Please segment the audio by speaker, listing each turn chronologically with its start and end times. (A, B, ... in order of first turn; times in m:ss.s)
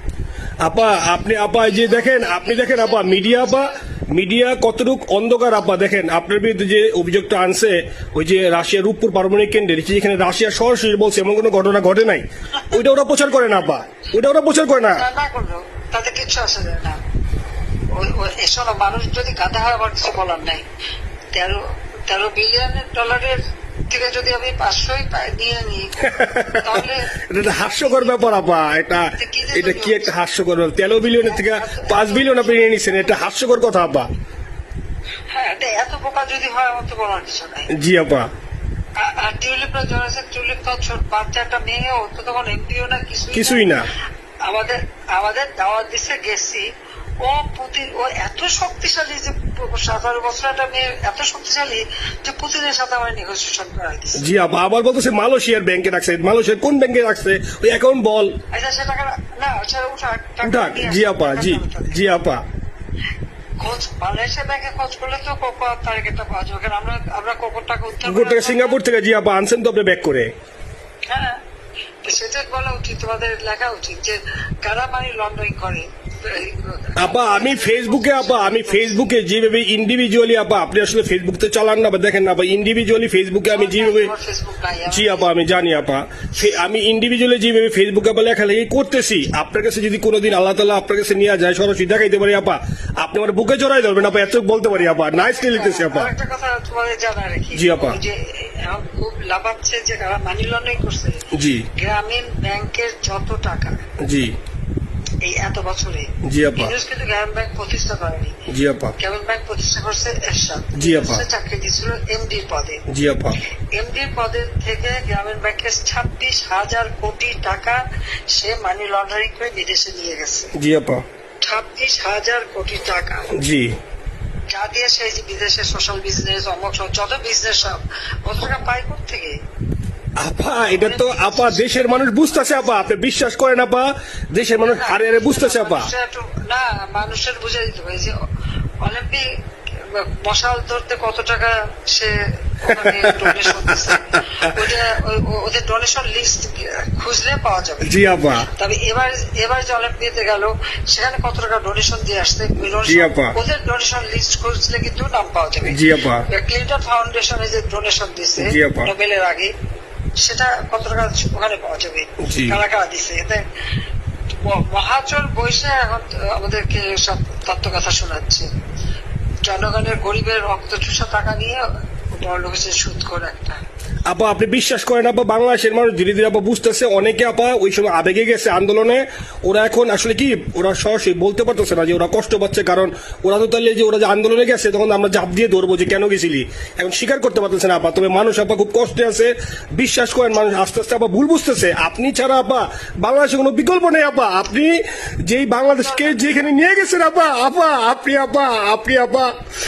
0:00.6-0:15.0 A
0:01.1-0:03.7 B
0:14.9-0:17.0 B
0:17.9-0:20.6 B
0:21.3-0:28.4 B
0:26.1-0:26.6 A
0:27.3-0:34.1 A
0:29.2-0:30.1 B
0:31.2-0:33.0 B
0:35.3-0:37.7 B
0:37.7-0:38.3 A
0:39.0-0:43.8 B
0:43.3-0:43.9 A
0:44.4-0:46.7 B
0:47.2-0:54.2 B
0:54.2-0:58.4 A
0:58.5-1:02.0 B
1:00.4-1:02.4 A
1:03.6-1:08.8 B
1:08.0-1:10.3 A
1:11.1-1:11.4 B
1:12.0-1:19.0 B
1:17.0-1:24.1 A
1:23.5-1:25.3 B
1:24.9-1:36.1 A
1:35.1-1:43.8 B
1:37.5-1:38.0 A
1:41.3-1:41.7 A
1:44.0-1:44.3 A
1:45.2-1:48.3 B
1:46.2-1:46.7 A
1:48.5-1:49.0 A
1:49.0-1:52.8 B
1:50.7-1:51.2 A
1:52.9-1:53.4 A
1:53.7-1:57.8 B
1:58.3-2:00.5 B
2:00.6-2:01.0 A
2:01.4-2:03.3 B
2:03.3-2:03.7 A
2:04.5-2:09.3 B
2:10.2-2:15.9 A
2:10.7-2:12.8 B
2:14.5-2:18.2 B
2:18.8-2:19.2 B
2:19.8-2:27.9 B
2:22.7-2:24.6 A
2:27.8-2:28.5 A
2:28.5-2:35.8 B
2:32.8-2:33.3 A
2:35.6-2:36.2 A
2:36.3-2:39.5 B
2:38.4-2:38.9 A
2:40.2-2:43.4 B
2:42.2-2:42.6 A
2:44.4-2:48.4 B
2:49.4-2:51.6 B
2:52.2-2:53.6 B
2:54.1-3:19.3 A
3:15.6-3:16.5 B